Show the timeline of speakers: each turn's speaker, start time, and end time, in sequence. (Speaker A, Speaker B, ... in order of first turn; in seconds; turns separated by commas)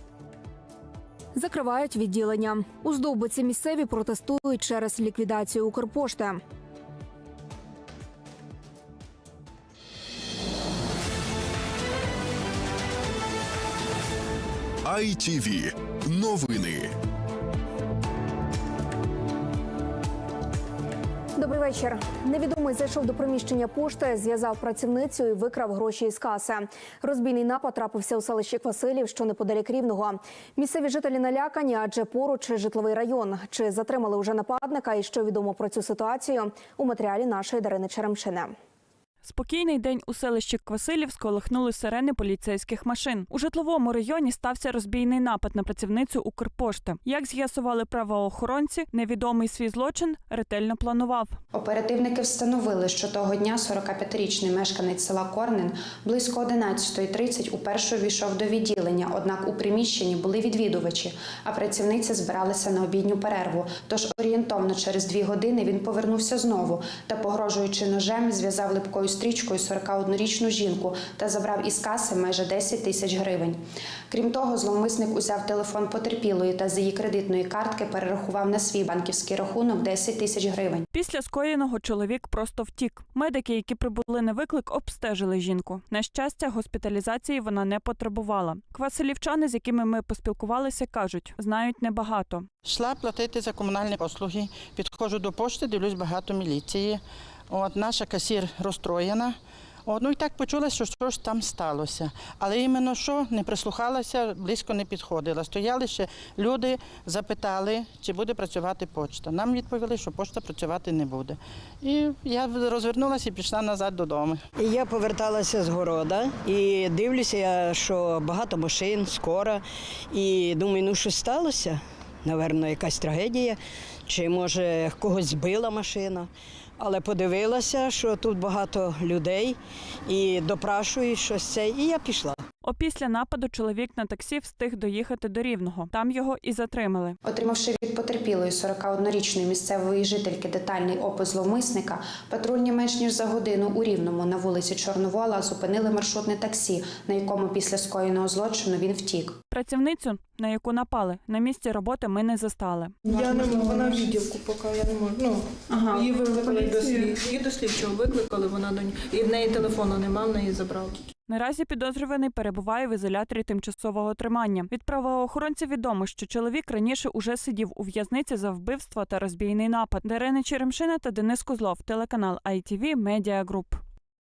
Speaker A: 1.3-6.4, Speaker B: 14.9-16.9, Speaker A: 21.4-38.5, Speaker C: 39.2-51.4, Speaker D: 51.5-73.6, Speaker D: 74.1-80.8, Speaker C: 80.9-92.5, Speaker E: 92.6-99.3, Speaker E: 99.9-114.4, Speaker F: 114.6-123.6, Speaker F: 124.1-126.3, Speaker F: 126.8-129.6, Speaker F: 130.1-132.4, Speaker C: 132.6-137.2, Speaker D: 137.2-149.4, Speaker C: 149.5-152.9, Speaker G: 153.1-161.0, Speaker C: 161.3-173.8